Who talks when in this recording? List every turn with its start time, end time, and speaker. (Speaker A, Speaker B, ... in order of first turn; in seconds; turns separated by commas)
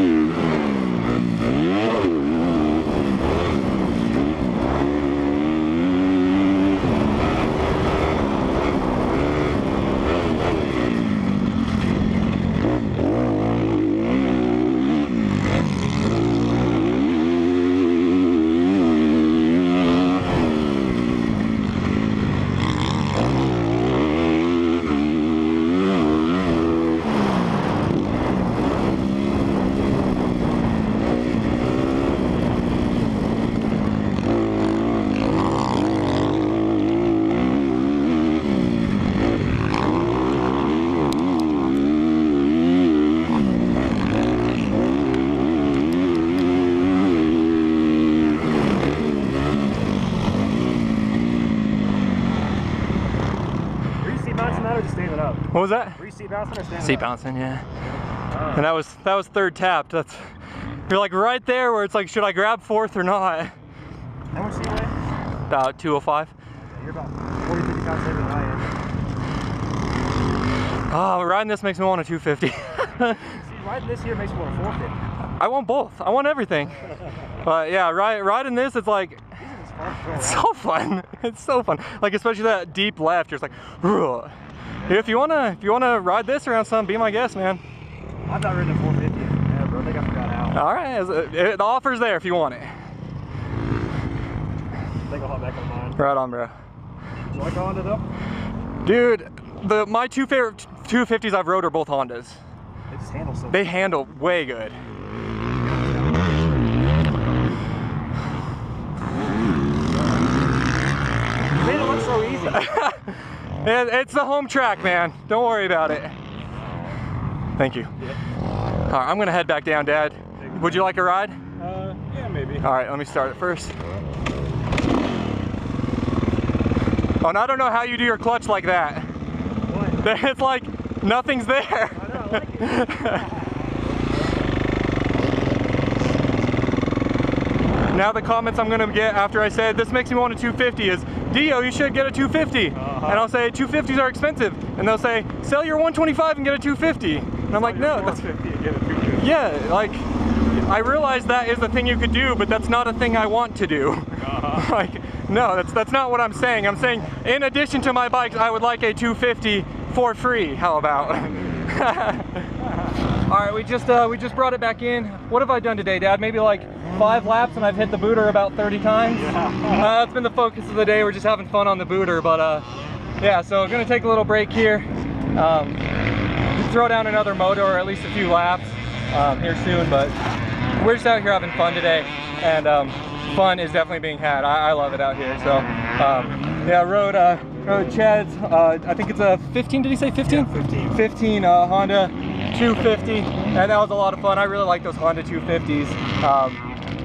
Speaker A: 54.0-55.4, Speaker B: 55.5-56.0, Speaker A: 56.0-57.1, Speaker B: 56.8-57.6, Speaker A: 58.3-58.7, Speaker B: 58.5-60.3, Speaker B: 60.9-63.5, Speaker A: 64.3-64.9, Speaker B: 65.5-66.3, Speaker A: 66.8-68.7, Speaker B: 70.9-73.3, Speaker A: 73.3-75.0, Speaker B: 75.4-76.7, Speaker B: 77.4-79.2, Speaker A: 79.4-80.4, Speaker B: 80.2-84.3, Speaker B: 84.9-87.6, Speaker A: 88.3-90.6, Speaker B: 90.5-92.7, Speaker A: 95.1-96.0, Speaker B: 96.0-96.5, Speaker A: 97.3-98.1, Speaker B: 98.8-102.4, Speaker A: 102.9-103.6, Speaker B: 103.5-104.8, Speaker A: 111.6-112.6, Speaker B: 112.5-116.1, Speaker B: 117.6-117.9, Speaker B: 118.9-121.4, Speaker A: 120.4-120.8, Speaker C: 121.6-122.7, Speaker A: 121.6-122.0, Speaker B: 122.6-123.7, Speaker B: 127.2-129.1, Speaker A: 129.7-130.0, Speaker B: 130.0-133.3, Speaker A: 131.9-133.4, Speaker B: 137.9-148.3, Speaker A: 142.8-143.2, Speaker A: 147.5-149.2, Speaker B: 149.2-162.5, Speaker A: 154.3-154.6, Speaker B: 163.3-172.7, Speaker A: 169.2-169.9, Speaker B: 173.2-175.8, Speaker B: 176.5-180.2, Speaker B: 180.8-196.6, Speaker C: 190.2-191.1